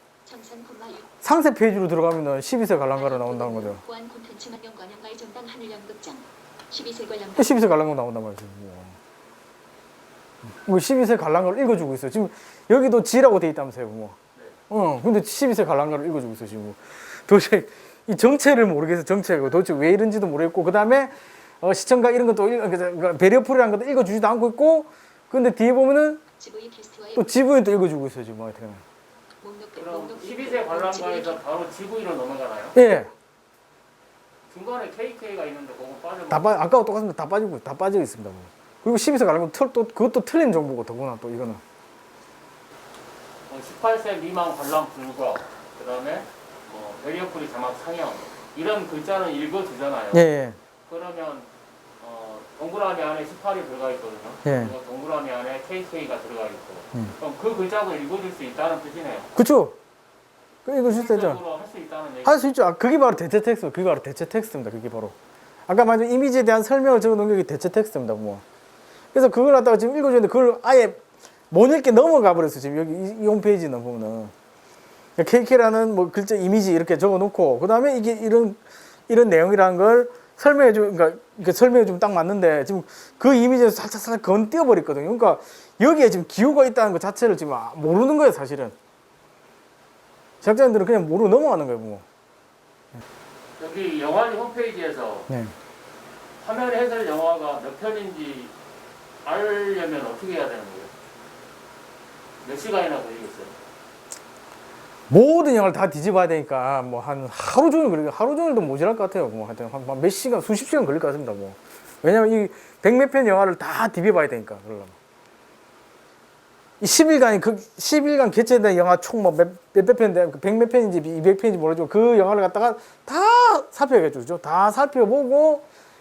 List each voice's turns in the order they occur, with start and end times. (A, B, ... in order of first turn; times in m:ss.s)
0:00.2-0:01.1 A
0:01.2-0:03.8 B
0:02.9-0:07.6 A
0:07.4-0:09.0 B
0:10.6-0:14.2 B
0:14.7-0:26.2 B
0:26.4-0:27.3 A
0:27.2-0:28.8 B
0:29.4-0:31.4 A
0:29.8-0:32.8 C
0:32.7-0:33.1 B
0:34.5-0:36.5 C
0:36.3-0:41.6 B
0:43.5-0:50.2 C
0:50.1-0:50.6 B
0:50.9-0:51.5 C
0:52.0-0:59.3 C
0:54.4-0:54.7 B
0:59.4-0:59.8 B
1:00.6-1:01.4 B
1:00.8-1:02.4 C
1:02.2-1:05.1 B
1:05.7-1:08.4 B
1:09.1-1:11.0 B
1:11.5-1:14.3 B
1:15.2-1:28.7 B
1:30.4-1:32.0 B
1:33.6-1:35.3 C
1:36.4-1:38.5 C
1:39.2-1:40.9 C
1:42.4-1:43.5 C
1:45.1-1:54.9 B
1:56.8-2:05.6 B